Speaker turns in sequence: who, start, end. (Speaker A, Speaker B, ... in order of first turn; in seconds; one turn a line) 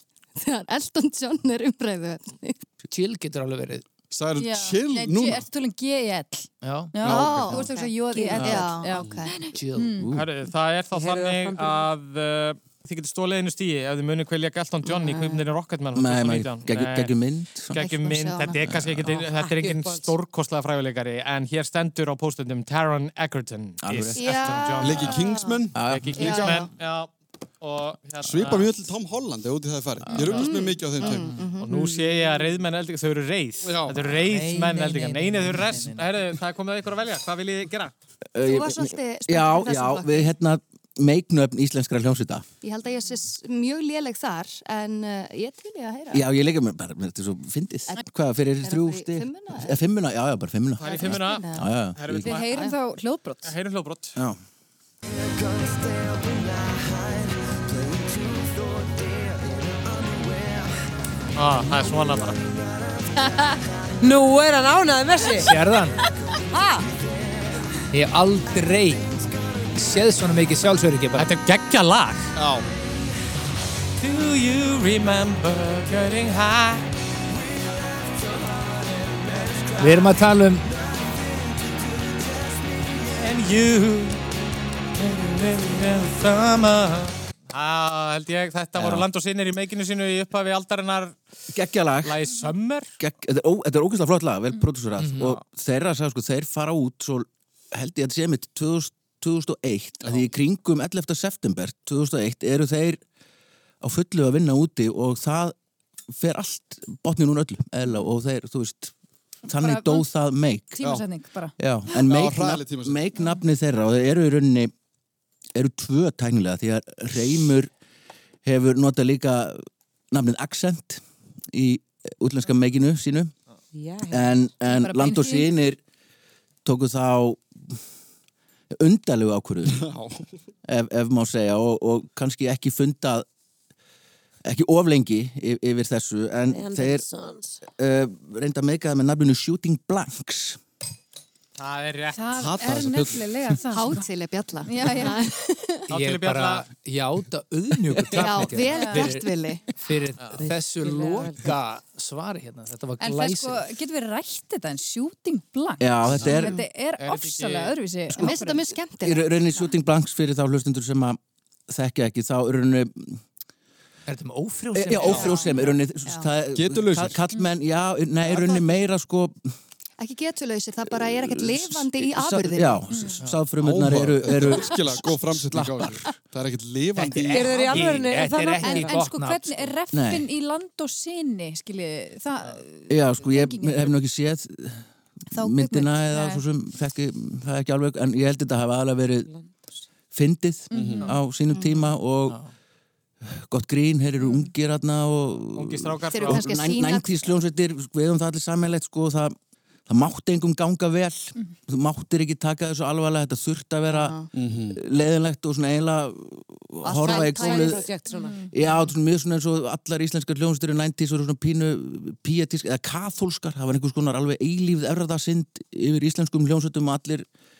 Speaker A: 0.4-2.6
Speaker B: 2.9-3.9
Speaker C: 4.1-5.4
Speaker D: 4.4-10.1
Speaker B: 6.6-7.3
Speaker A: 7.0-9.3
Speaker E: 7.2-7.6
Speaker E: 8.3-8.7
Speaker B: 9.5-10.0
Speaker E: 10.0-10.3
Speaker F: 10.1-17.1
Speaker G: 10.9-11.9
Speaker A: 14.9-15.4
Speaker E: 15.9-17.8
Speaker F: 17.7-25.2
Speaker A: 17.8-18.7
Speaker E: 18.8-19.0
Speaker G: 19.0-20.1
Speaker E: 23.8-24.8
Speaker A: 24.1-25.6
Speaker C: 24.8-25.8
Speaker E: 25.8-26.6
Speaker F: 25.9-28.7
Speaker A: 26.2-26.7
Speaker C: 28.2-31.4
Speaker D: 30.1-30.4
Speaker A: 30.1-31.7
Speaker B: 31.1-31.4
Speaker F: 31.6-37.9
Speaker C: 33.6-34.0
Speaker B: 34.2-36.1
Speaker E: 38.3-42.5
Speaker A: 38.4-40.3
Speaker A: 42.6-46.2
Speaker E: 46.1-52.3
Speaker A: 48.6-49.8
Speaker F: 50.8-52.6
Speaker A: 50.8-51.7
Speaker D: 52.2-53.5
Speaker A: 52.3-52.8
Speaker F: 53.5-54.2
Speaker F: 61.4-62.4
Speaker G: 64.0-65.5
Speaker B: 65.3-66.0
Speaker G: 66.5-66.9
Speaker B: 67.9-69.2
Speaker B: 69.8-71.3
Speaker F: 71.2-72.3
Speaker C: 72.4-72.7
Speaker F: 74.0-76.9
Speaker B: 79.8-80.7
Speaker F: 83.1-84.2
Speaker F: 85.0-91.2
Speaker E: 88.8-89.1
Speaker E: 91.5-92.2
Speaker F: 92.0-92.9
Speaker E: 93.0-103.0
Speaker B: 95.0-95.4
Speaker E: 103.8-105.5
Speaker E: 106.1-108.9
Speaker E: 109.5-110.8
Speaker D: 109.5-110.1
Speaker D: 110.8-111.5
Speaker E: 111.6-114.7
Speaker C: 111.9-113.0
Speaker E: 115.5-117.7
Speaker E: 118.5-123.3
Speaker G: 123.7-124.4
Speaker E: 124.1-125.8
Speaker D: 124.6-125.5
Speaker E: 126.7-127.8
Speaker E: 128.7-129.9
Speaker C: 129.7-130.3
Speaker E: 130.7-133.3
Speaker E: 134.4-137.1
Speaker G: 136.5-137.6
Speaker E: 137.7-140.6
Speaker F: 141.6-142.2
Speaker D: 142.1-144.1
Speaker C: 142.4-143.2
Speaker A: 143.7-145.8
Speaker D: 144.7-145.2
Speaker F: 145.9-146.7
Speaker B: 145.9-153.7
Speaker A: 148.1-149.7
Speaker D: 148.7-149.1
Speaker G: 150.4-151.6
Speaker D: 153.0-158.6
Speaker E: 155.8-156.7
Speaker F: 156.2-157.8
Speaker E: 158.1-158.4
Speaker A: 158.2-159.7
Speaker E: 159.0-163.2
Speaker B: 164.1-165.5
Speaker E: 164.7-169.5
Speaker A: 165.0-166.3
Speaker C: 165.1-165.4
Speaker C: 166.5-167.2
Speaker A: 170.0-173.2
Speaker E: 171.0-176.0
Speaker D: 172.9-173.2
Speaker C: 173.6-177.7
Speaker B: 176.9-179.8
Speaker G: 177.3-179.0
Speaker D: 178.6-183.9
Speaker E: 179.9-180.3
Speaker E: 182.9-189.3
Speaker D: 185.3-186.4
Speaker G: 189.3-189.8
Speaker E: 190.1-192.4
Speaker D: 190.7-191.2
Speaker C: 190.7-191.2
Speaker E: 193.2-199.4
Speaker F: 195.5-196.5
Speaker A: 196.1-197.4
Speaker E: 199.9-207.9
Speaker A: 203.9-204.3
Speaker C: 204.3-204.8
Speaker A: 206.8-207.9
Speaker G: 207.0-208.4
Speaker D: 208.2-208.5
Speaker E: 208.5-217.3